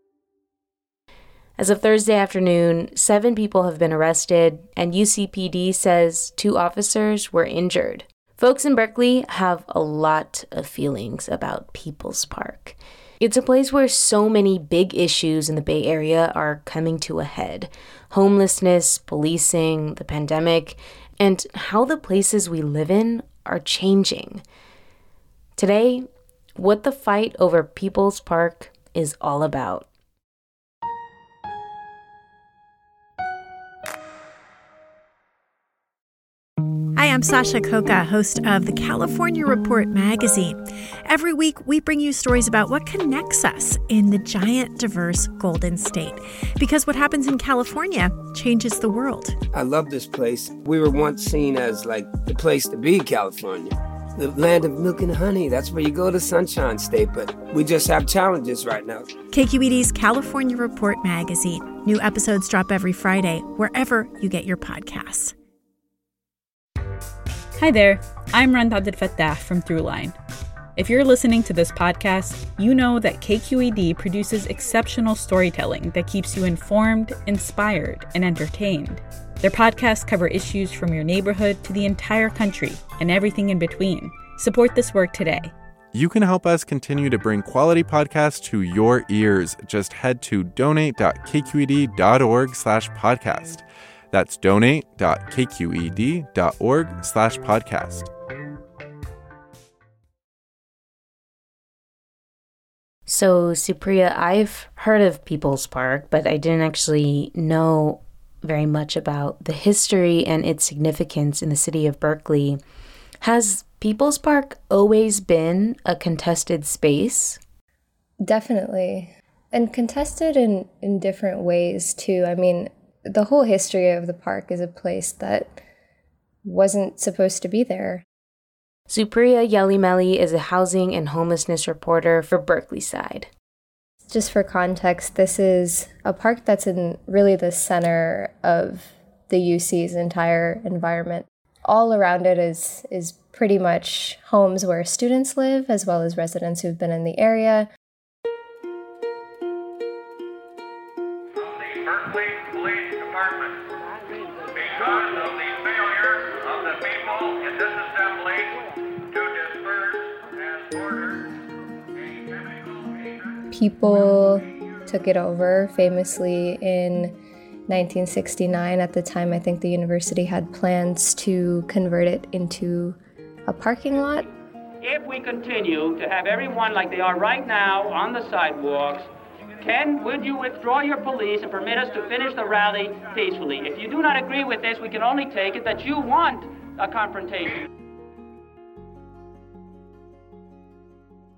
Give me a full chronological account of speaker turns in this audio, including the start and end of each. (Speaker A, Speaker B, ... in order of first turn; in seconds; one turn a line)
Speaker A: 1.6-24.4
Speaker A: 25.6-29.9
Speaker B: 36.9-49.4
Speaker C: 49.5-59.1
Speaker B: 59.3-65.3
Speaker D: 67.6-70.2
Speaker D: 70.8-85.5
Speaker E: 85.9-98.1
Speaker A: 103.1-112.6
Speaker A: 113.2-117.4
Speaker F: 118.2-125.6
Speaker F: 126.4-128.0
Speaker A: 128.9-133.3
Speaker F: 134.1-147.7
Speaker F: 163.5-167.2
Speaker F: 167.7-173.0
Speaker F: 173.5-174.2
Speaker G: 174.8-179.1
Speaker G: 179.6-187.6